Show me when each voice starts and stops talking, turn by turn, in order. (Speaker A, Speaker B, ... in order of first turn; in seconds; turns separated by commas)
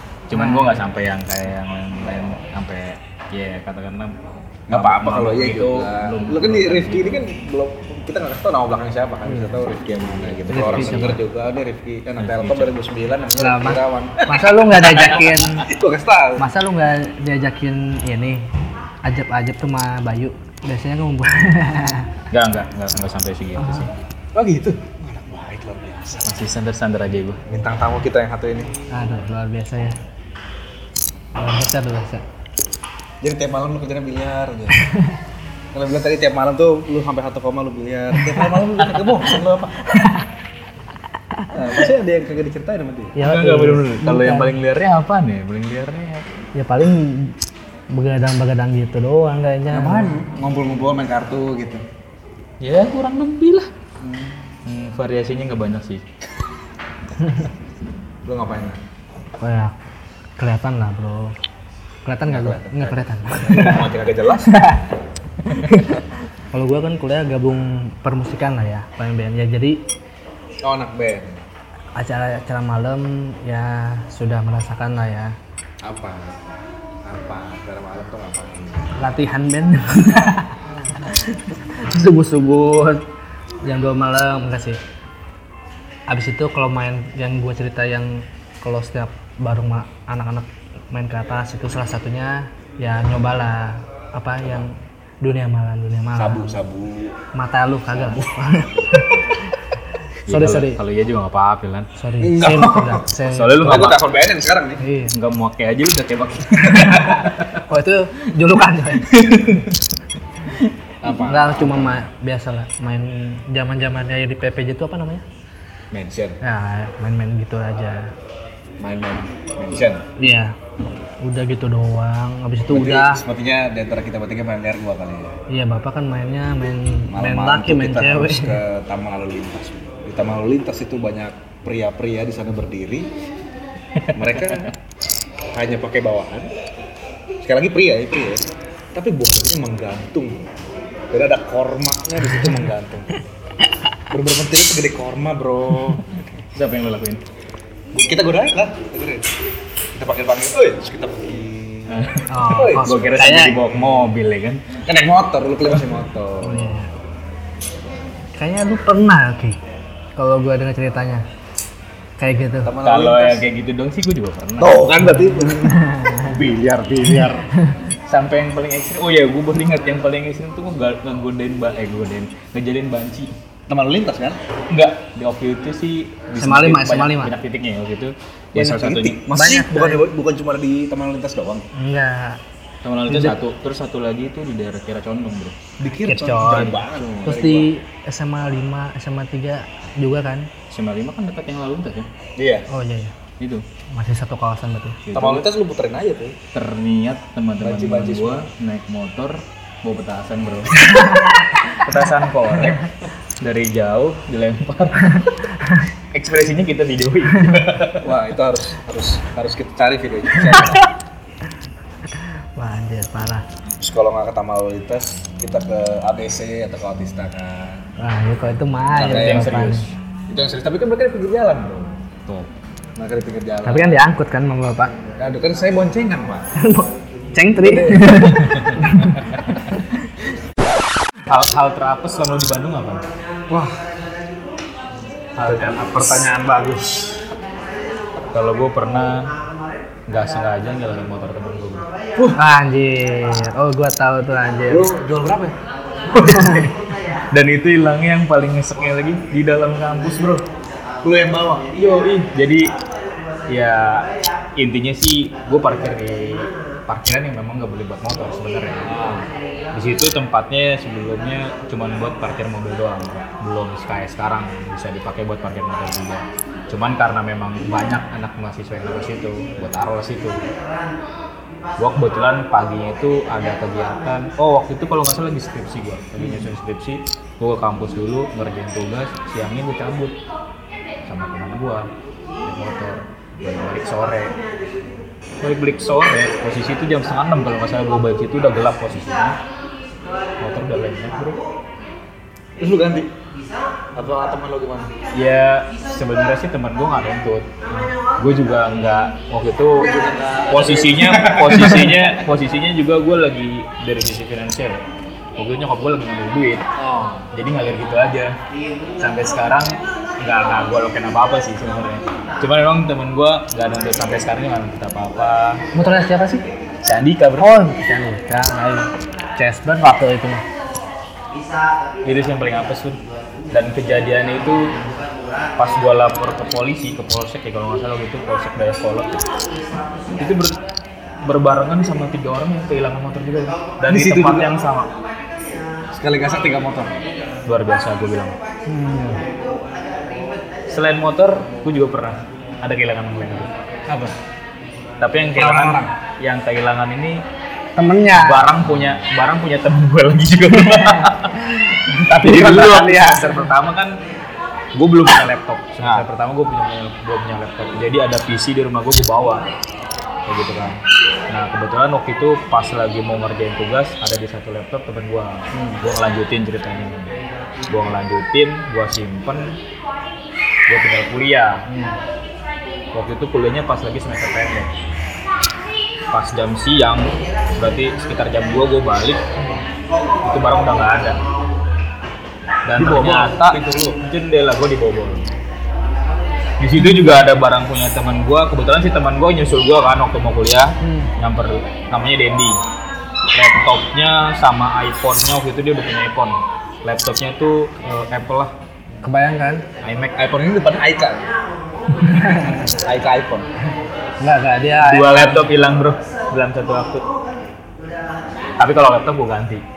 Speaker A: 0.3-7.2, Speaker B: 0.3-0.8, Speaker C: 4.7-16.4, Speaker B: 9.3-9.5, Speaker A: 10.3-11.2, Speaker B: 10.5-11.2, Speaker A: 12.2-12.7, Speaker B: 13.4-15.7, Speaker A: 14.8-15.4, Speaker B: 16.4-18.4, Speaker B: 19.0-22.1, Speaker A: 22.3-24.0, Speaker B: 23.6-23.9, Speaker C: 24.3-26.4, Speaker A: 26.2-27.4, Speaker C: 27.5-28.7, Speaker B: 28.9-29.9, Speaker B: 31.3-32.2, Speaker C: 33.2-34.8, Speaker B: 34.8-35.1, Speaker C: 35.7-40.0, Speaker C: 41.5-43.2, Speaker B: 43.1-44.5, Speaker A: 43.2-46.2, Speaker B: 46.5-47.3, Speaker B: 47.9-50.1, Speaker C: 49.7-51.8, Speaker A: 52.6-53.7, Speaker A: 54.6-56.0, Speaker B: 57.2-57.5, Speaker C: 58.2-58.8, Speaker B: 59.4-59.7, Speaker B: 60.4-61.4, Speaker B: 62.0-63.9, Speaker C: 62.3-64.7, Speaker B: 64.4-64.8, Speaker B: 65.7-66.0, Speaker B: 66.5-69.8, Speaker C: 70.6-71.4, Speaker B: 72.0-75.3, Speaker C: 75.8-76.5, Speaker C: 77.0-79.0, Speaker B: 79.0-83.0, Speaker B: 83.6-84.8, Speaker B: 86.1-96.6, Speaker C: 96.2-97.1, Speaker B: 97.3-99.3, Speaker C: 97.9-99.1, Speaker A: 100.3-101.9, Speaker B: 100.3-100.8, Speaker B: 102.0-103.9, Speaker C: 102.2-103.1, Speaker A: 103.3-104.0, Speaker C: 103.6-104.8, Speaker B: 104.8-105.1, Speaker A: 105.1-107.6, Speaker B: 106.6-109.2, Speaker A: 109.0-109.8, Speaker C: 111.0-112.0, Speaker B: 111.1-115.2, Speaker C: 115.9-116.4, Speaker B: 116.4-118.1, Speaker C: 118.8-120.0, Speaker B: 120.2-120.5, Speaker B: 121.2-123.2, Speaker C: 122.7-125.3, Speaker B: 125.5-128.6, Speaker C: 127.1-133.1, Speaker A: 134.0-134.6, Speaker C: 134.1-134.7, Speaker C: 135.5-136.5, Speaker C: 137.4-140.5, Speaker C: 141.1-143.2, Speaker C: 144.1-146.1, Speaker A: 146.5-147.2, Speaker C: 147.9-149.3, Speaker C: 149.9-153.3, Speaker A: 151.9-154.6, Speaker B: 152.3-153.6, Speaker C: 154.8-156.8, Speaker B: 156.4-156.9, Speaker B: 158.4-159.6, Speaker B: 160.2-161.2, Speaker B: 162.2-162.7, Speaker C: 162.6-163.4, Speaker A: 162.8-164.9, Speaker C: 164.6-167.2, Speaker B: 165.0-166.4, Speaker A: 166.3-167.4, Speaker B: 167.1-167.8, Speaker A: 168.1-173.3, Speaker C: 173.7-174.4, Speaker A: 174.7-179.2, Speaker B: 176.4-177.3, Speaker C: 178.5-181.7, Speaker B: 179.3-180.0, Speaker B: 181.7-182.4, Speaker A: 182.8-185.6, Speaker B: 183.1-183.4, Speaker C: 185.8-187.7, Speaker B: 186.0-190.5, Speaker A: 186.4-186.8, Speaker A: 190.7-192.1, Speaker C: 192.4-192.7, Speaker B: 192.7-193.1, Speaker A: 193.4-193.6, Speaker B: 193.9-195.0, Speaker A: 195.0-195.5, Speaker C: 195.1-196.4, Speaker A: 196.5-200.9, Speaker C: 197.6-198.5, Speaker B: 200.8-201.8, Speaker A: 201.7-205.4, Speaker A: 206.1-208.1, Speaker C: 208.0-210.9, Speaker B: 212.6-213.4, Speaker C: 213.8-217.8, Speaker B: 218.0-219.8, Speaker C: 218.9-219.7, Speaker A: 219.0-219.9, Speaker C: 220.3-222.0, Speaker C: 222.9-224.0, Speaker B: 223.6-224.9, Speaker C: 225.2-226.5, Speaker B: 226.6-229.7, Speaker C: 227.6-228.5, Speaker A: 228.3-228.8, Speaker A: 231.3-233.1, Speaker C: 233.5-233.8, Speaker A: 235.3-236.3, Speaker C: 235.4-237.2, Speaker A: 238.3-239.3, Speaker A: 240.1-241.9, Speaker B: 242.3-244.9, Speaker C: 244.7-245.5, Speaker A: 246.1-246.7, Speaker B: 246.1-246.7, Speaker A: 247.3-250.4, Speaker C: 251.0-251.7, Speaker A: 251.7-252.7, Speaker A: 253.5-270.4, Speaker C: 258.8-259.2, Speaker A: 271.8-280.1, Speaker C: 276.2-276.5, Speaker A: 281.1-281.9, Speaker A: 282.4-284.4, Speaker A: 285.4-289.4, Speaker A: 290.4-291.4, Speaker C: 292.6-293.1, Speaker C: 293.9-294.9, Speaker A: 295.1-299.9, Speaker C: 299.8-302.2, Speaker A: 300.5-304.8, Speaker A: 305.4-306.6, Speaker C: 306.8-307.3, Speaker A: 307.3-308.4, Speaker A: 309.0-315.6, Speaker B: 315.7-316.4, Speaker A: 316.8-317.5, Speaker B: 317.4-320.4, Speaker A: 322.0-323.0, Speaker A: 323.5-324.7, Speaker A: 325.6-329.2, Speaker A: 330.2-330.6, Speaker A: 331.2-334.9, Speaker C: 333.9-334.6, Speaker C: 335.9-337.0, Speaker A: 337.4-338.4, Speaker B: 338.7-339.2, Speaker A: 340.7-343.5, Speaker C: 343.9-344.1, Speaker A: 345.0-347.2, Speaker C: 345.3-345.9, Speaker B: 347.8-348.5, Speaker A: 348.1-354.0, Speaker B: 350.5-351.1, Speaker B: 351.9-353.5, Speaker A: 354.7-359.5, Speaker C: 355.8-356.1, Speaker A: 360.2-367.1, Speaker A: 367.7-369.6, Speaker A: 370.7-371.7, Speaker A: 372.9-374.7, Speaker A: 376.1-379.2, Speaker A: 380.2-381.2, Speaker A: 382.6-385.3, Speaker C: 382.8-384.0, Speaker A: 386.6-392.6, Speaker B: 390.8-391.1, Speaker A: 393.3-398.5, Speaker B: 399.0-399.6, Speaker A: 399.8-400.2, Speaker C: 400.1-401.2, Speaker B: 402.0-402.7, Speaker C: 402.5-403.5, Speaker B: 404.2-405.5, Speaker A: 404.8-407.0, Speaker A: 408.6-409.6